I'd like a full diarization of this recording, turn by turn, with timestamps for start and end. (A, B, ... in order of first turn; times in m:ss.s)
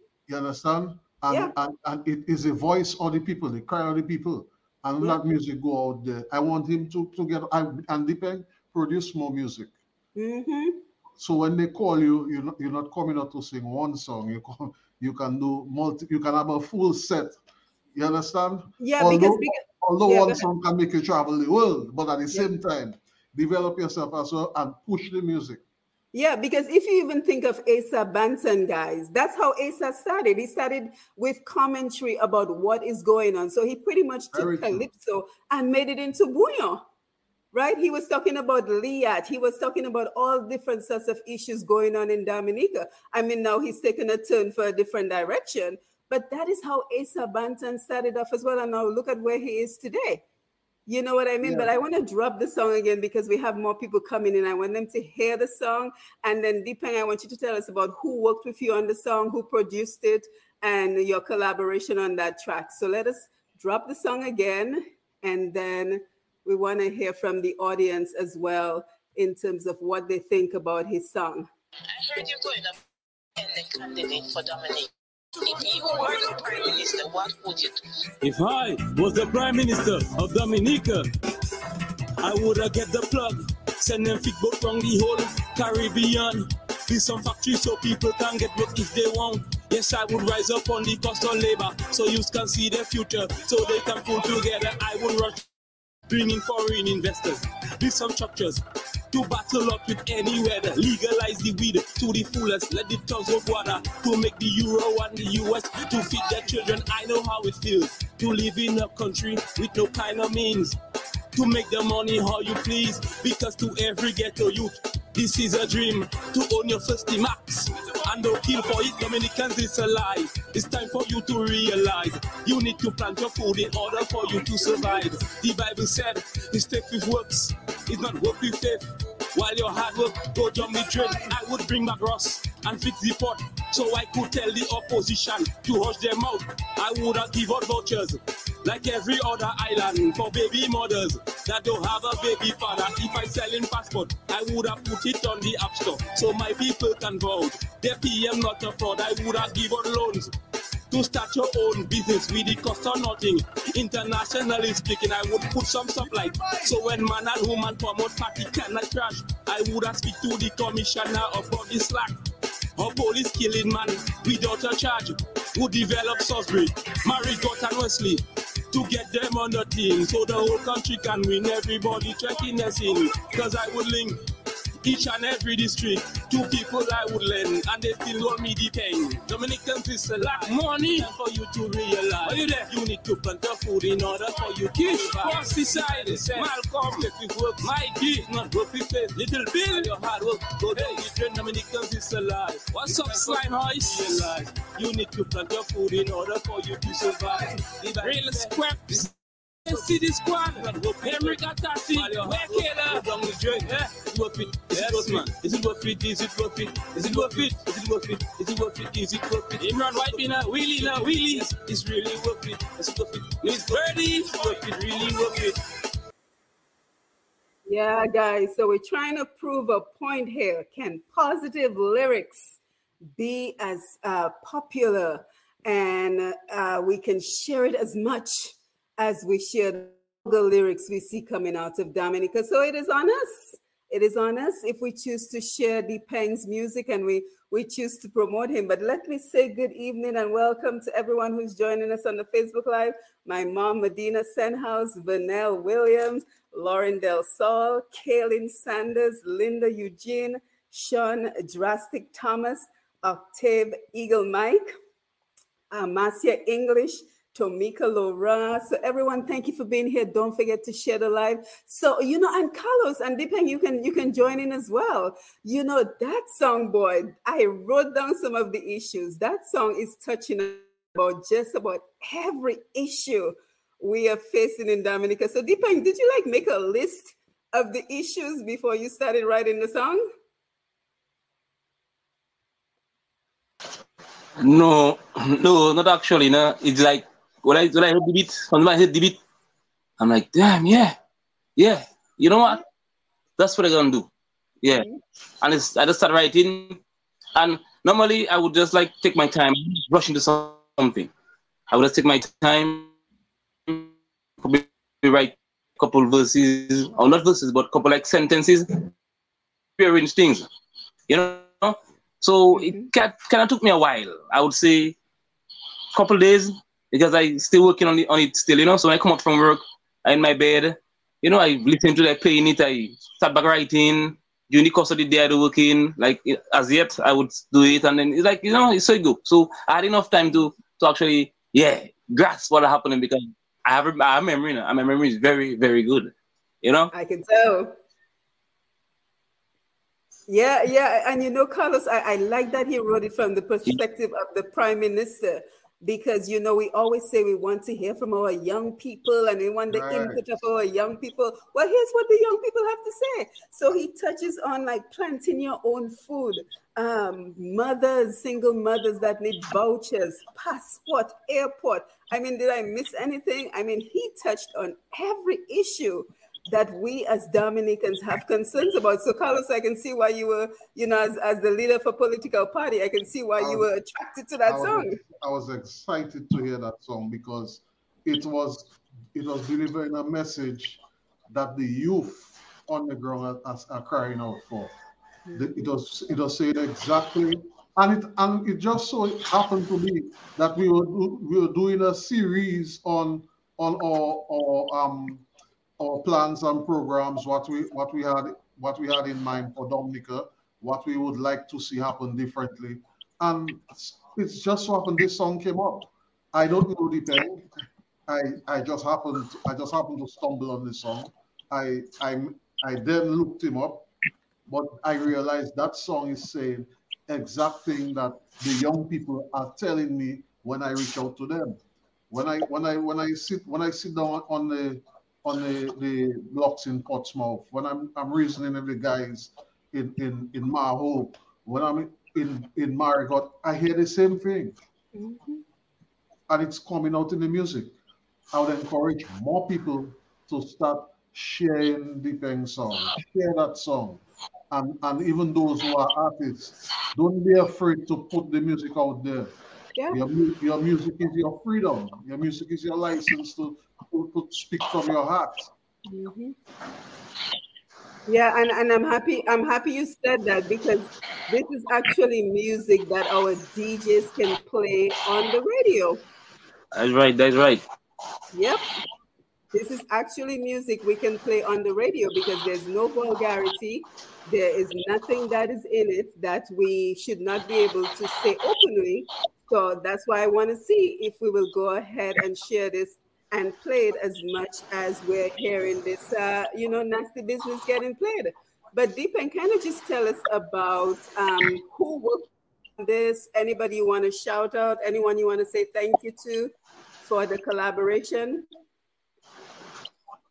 0:00.3-0:09.7 A
0:10.2-0:10.8 B
0:11.2-0:17.4 A
0:17.9-0:25.6 A
0:18.8-0:20.4 B
0:26.1-0:36.8 B
0:34.3-0:34.9 A
0:37.5-0:50.2 B
0:50.9-1:11.5 B
0:51.4-0:51.7 A
1:11.9-1:12.8 C
1:13.4-1:17.8 C
1:18.2-1:21.1 D
1:22.2-1:35.5 D
1:36.1-1:50.8 D
1:51.3-2:30.3 D
2:30.9-2:42.2 D
2:42.8-2:54.2 D
2:54.8-3:19.1 D
3:00.2-3:01.1 E
3:04.8-3:07.1 E
3:09.7-3:11.1 E
3:12.8-3:14.3 E
3:17.8-3:19.0 E
3:19.6-3:35.6 D
3:21.0-3:23.8 E
3:24.7-3:25.3 E
3:27.0-3:27.5 E
3:29.8-3:31.5 E
3:37.7-3:42.6 B
3:43.2-4:14.7 B
4:15.7-4:40.0 B
4:44.4-4:49.2 E
4:50.0-4:51.0 E
4:51.6-4:52.6 E
4:53.4-4:54.1 E
4:54.7-4:55.0 B
4:55.4-4:56.8 E
4:57.4-5:01.1 E
5:01.7-5:02.9 E
5:04.4-5:08.8 E
5:09.8-5:10.5 E
5:11.1-5:15.0 E
5:12.5-5:12.9 B
5:15.9-5:36.1 E
5:36.6-5:36.9 E
5:36.9-5:37.7 B
5:40.3-6:15.0 B
5:49.7-5:50.2 A
6:13.4-6:13.6 A
6:14.4-6:24.7 A
6:25.3-6:25.6 B
6:25.3-6:35.2 A
6:35.8-6:47.5 A
6:48.1-6:53.9 A
6:54.5-7:14.6 A
7:14.9-7:15.4 B
7:16.3-7:17.7 A
7:18.3-7:29.3 A
7:29.9-7:35.5 A
7:35.9-7:36.3 B
7:38.1-7:46.0 B
7:46.7-7:47.6 E
7:48.3-7:48.7 B
7:49.5-8:18.5 B